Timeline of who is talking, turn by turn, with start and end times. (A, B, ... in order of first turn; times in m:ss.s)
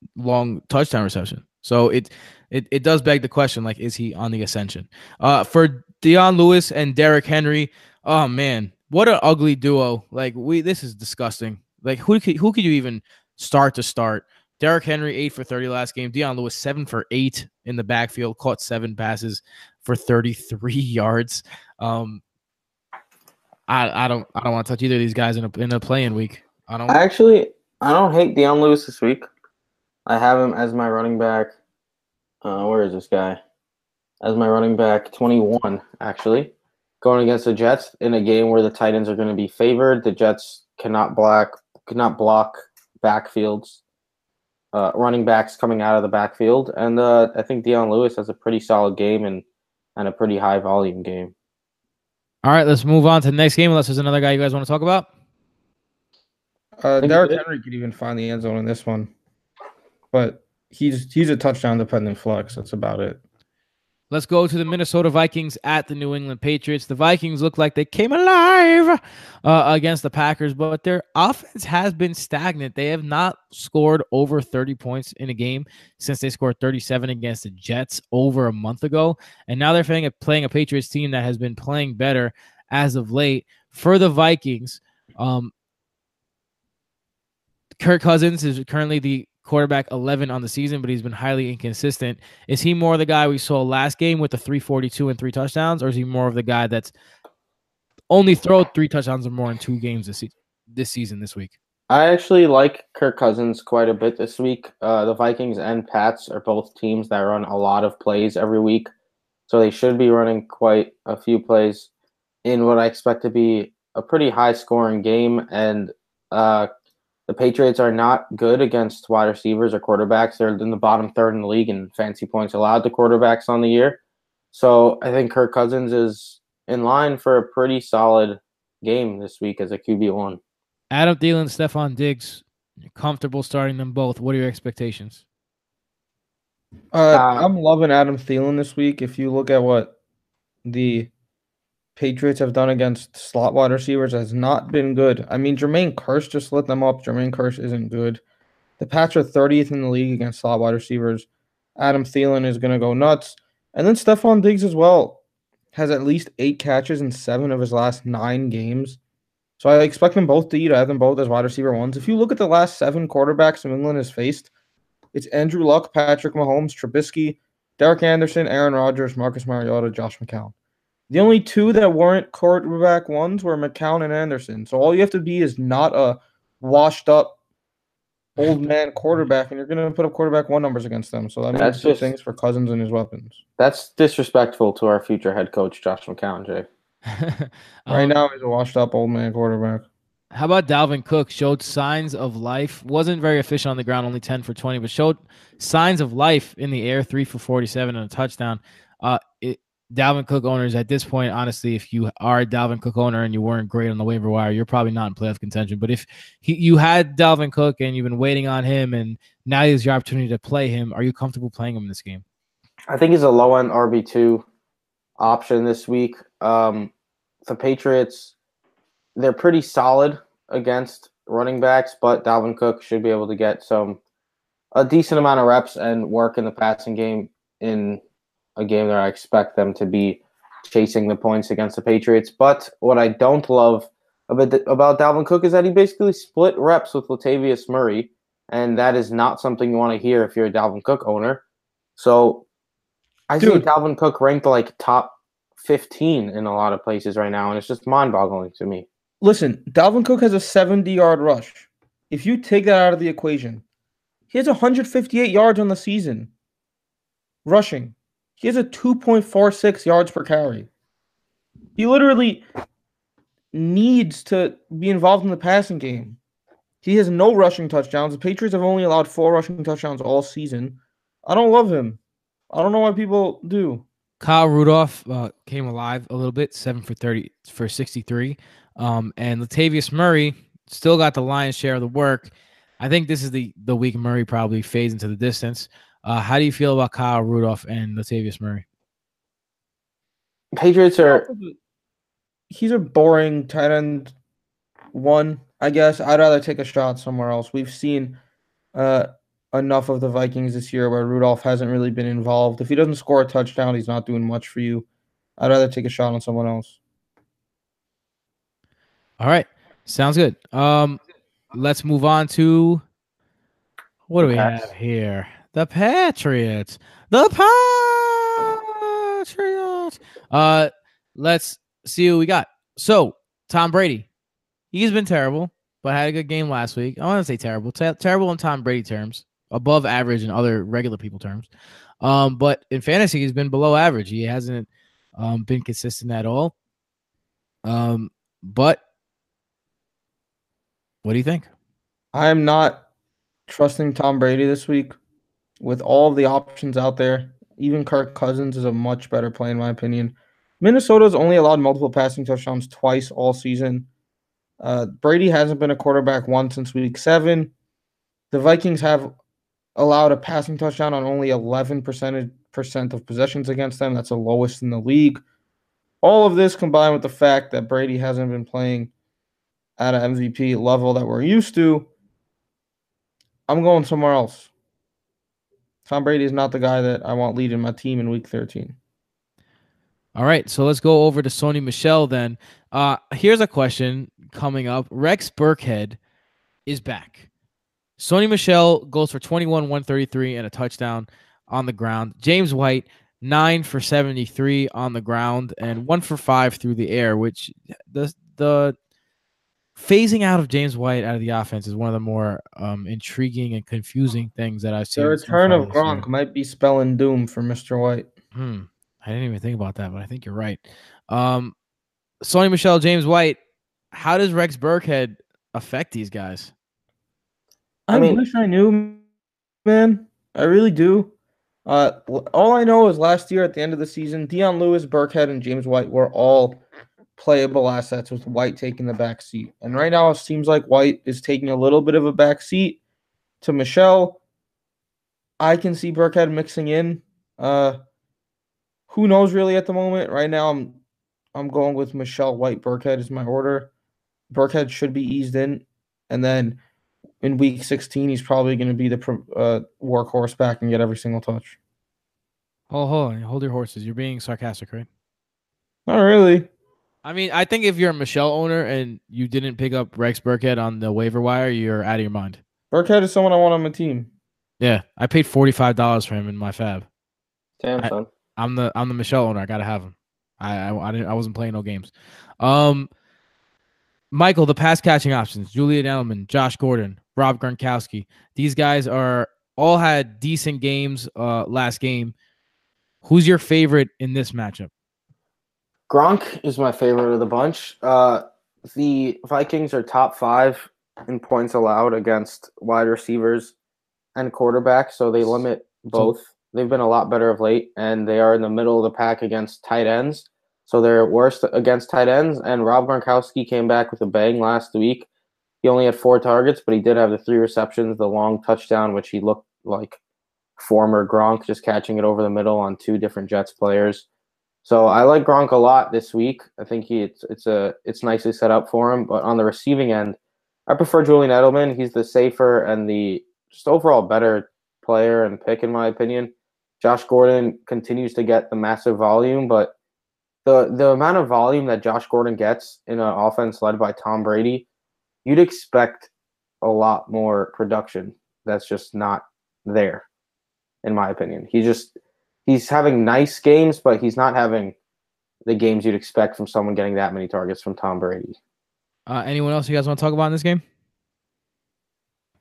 0:00.2-0:22.2 A
0:23.7-0:27.0 A
0:26.9-0:29.3 B
0:30.1-0:31.6 B
0:32.4-0:33.4 B
0:34.2-0:43.8 B
0:44.7-0:49.4 B
0:50.0-0:51.3 B
0:52.4-0:55.1 A
0:56.8-0:59.1 C
0:57.0-0:57.4 B
1:00.1-1:03.2 C
1:04.1-1:25.5 A
1:27.8-1:36.9 A
1:38.1-1:41.5 A
1:41.9-1:48.9 B
1:49.5-1:51.9 B
1:52.4-1:56.7 B
1:57.3-2:04.0 B
2:04.5-2:10.4 B
2:10.9-2:15.2 A
2:16.9-2:20.0 C
2:17.1-2:17.5 B
2:20.6-2:21.1 C
2:22.0-2:28.2 C
2:28.8-2:35.2 C
2:35.7-2:39.0 C
2:39.6-2:44.5 C
2:45.1-2:50.5 C
2:51.1-2:57.4 C
2:58.4-3:03.4 C
3:01.5-3:02.1 B
3:03.6-3:06.7 B
3:07.1-3:08.2 A
3:07.9-3:09.9 C
3:10.3-3:32.2 A
3:32.9-3:34.5 B
3:35.2-3:36.9 B
3:37.5-3:38.3 B
3:39.2-3:44.0 B
3:44.7-3:48.0 B
3:48.6-4:01.4 B
4:02.0-4:02.5 B
4:03.3-4:08.9 B
4:03.4-4:03.7 C
4:09.2-4:13.6 C
4:14.3-4:16.3 C
4:17.4-4:20.7 C
4:21.8-4:22.4 C
4:23.5-4:26.2 C
4:26.8-4:32.0 C
4:32.5-4:33.8 C
4:34.2-4:48.6 A
4:50.5-4:51.3 B
4:51.0-4:51.6 C
4:52.5-4:54.1 C
4:54.9-4:58.2 C
4:58.7-5:04.9 C
5:05.4-5:06.8 C
5:09.2-5:11.0 A
5:11.5-5:12.8 A
5:14.1-5:24.1 A
5:14.2-5:14.6 B
5:24.7-5:31.5 A
5:32.0-5:36.5 A
5:37.6-5:38.8 A
5:41.0-5:41.5 A
5:42.1-5:42.8 C
5:43.5-5:45.0 C
5:45.6-5:53.9 C
5:54.6-5:57.5 C
5:58.3-5:59.1 C
5:59.8-6:05.2 C
6:06.0-6:08.9 C
6:09.8-6:11.9 C
6:13.5-6:14.5 C
6:15.9-6:18.8 C
6:20.1-6:26.0 A
6:26.7-6:27.3 A
6:28.0-6:38.7 A
6:39.8-6:46.1 A
6:45.0-6:48.1 C
6:48.3-6:51.6 A
6:52.2-6:53.4 A
6:53.9-6:56.5 A
6:57.9-6:58.2 B
6:57.9-6:59.0 C
6:59.6-7:01.1 C
7:01.7-7:06.6 C
7:07.2-7:12.8 C
7:13.4-7:14.2 C
7:15.4-7:17.8 C
7:18.9-7:20.8 C
7:21.3-7:23.7 C
7:24.3-7:26.6 C
7:27.2-7:31.6 C
7:32.7-7:34.9 A
7:35.9-7:36.5 C
7:37.0-7:42.4 A
7:42.7-7:44.1 C
7:44.6-7:46.9 A
7:47.6-7:48.1 B
7:47.8-7:52.9 A
7:54.1-8:02.1 A
8:03.0-8:04.7 A
8:05.9-8:13.5 B
8:14.1-8:25.1 B
8:25.6-8:30.0 B
8:30.6-8:34.1 B
8:34.6-8:49.7 B
8:50.4-8:54.7 B
8:55.2-8:56.1 B
8:56.6-9:00.1 B
9:00.8-9:01.9 B
9:02.4-9:04.8 B
9:05.4-9:08.4 B
9:09.1-9:10.6 A